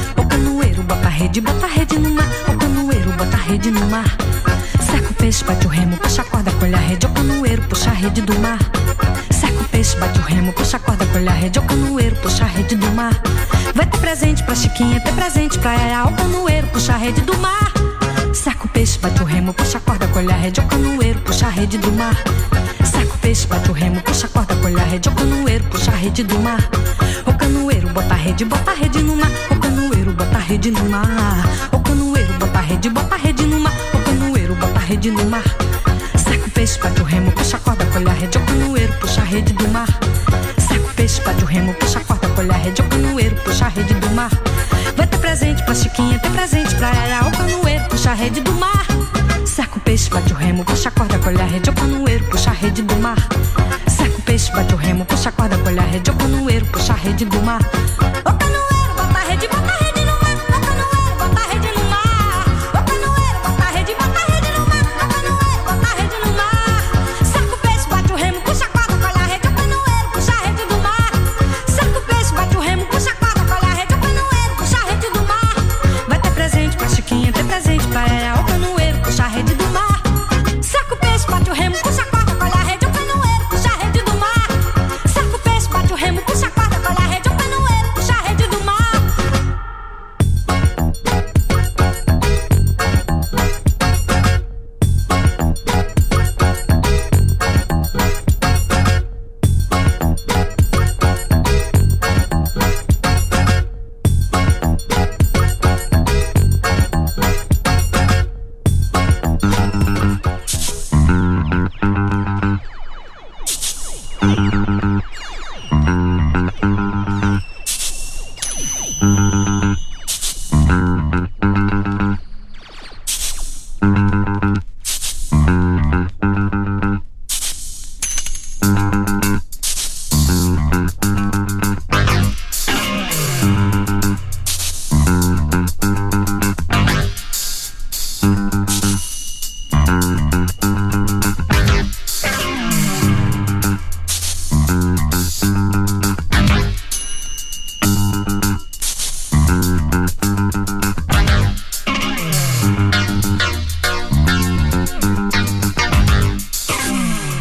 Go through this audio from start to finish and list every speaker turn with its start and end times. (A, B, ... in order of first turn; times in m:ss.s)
0:00.2-0:04.1 A
0:04.8-0:08.7 A
0:09.3-0:13.2 A
0:13.7-0:22.2 A
0:22.8-0:26.6 A
0:27.2-0:35.5 A
0:36.2-0:39.9 A
0:40.6-0:44.4 A
0:44.9-0:53.3 A
0:53.9-0:57.6 A
0:58.2-1:29.1 A